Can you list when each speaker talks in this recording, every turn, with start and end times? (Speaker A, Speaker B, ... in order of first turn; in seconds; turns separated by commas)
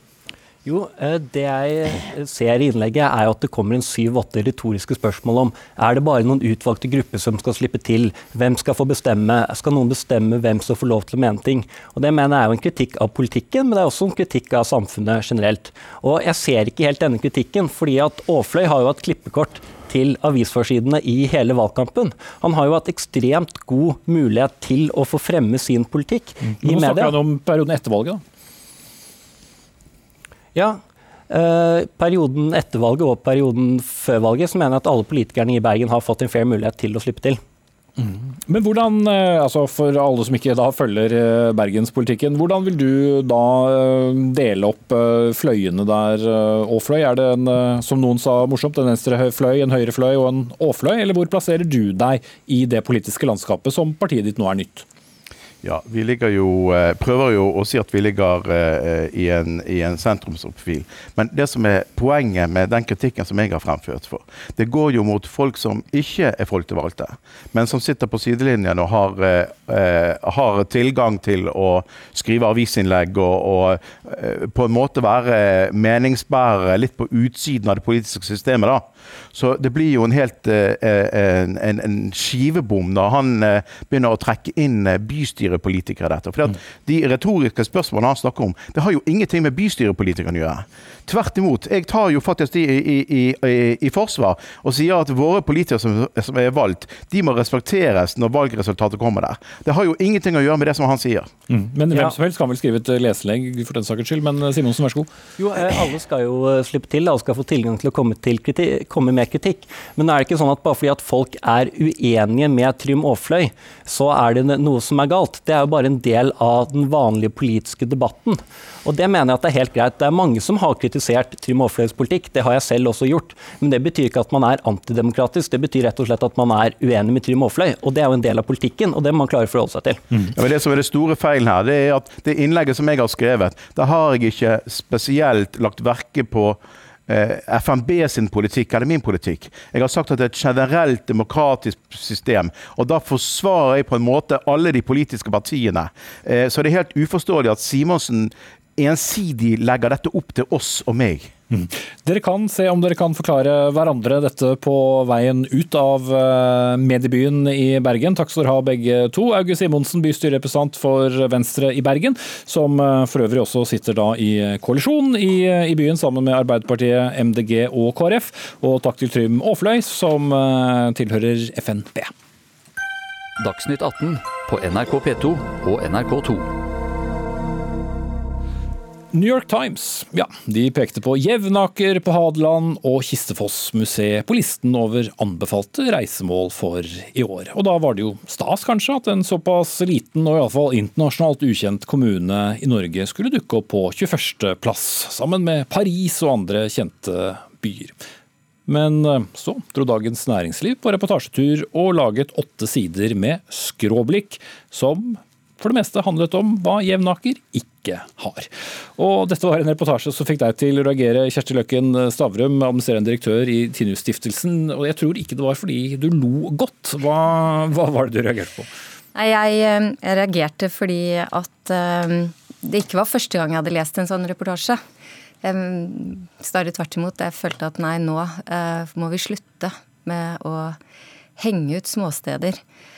Speaker A: 0.6-27.1, Speaker B: 26.5-28.2, Speaker A: 30.5-37.4, Speaker B: 38.0-54.9, Speaker C: 55.6-101.3, Speaker B: 101.5-105.1, Speaker A: 101.9-102.2, Speaker A: 105.4-130.2, Speaker C: 130.3-151.3, Speaker B: 151.5-172.1, Speaker D: 173.4-176.5, Speaker B: 179.1-197.9, Speaker B: 198.7-218.7, Speaker E: 219.1-224.8, Speaker E: 225.4-230.8, Speaker E: 231.4-232.6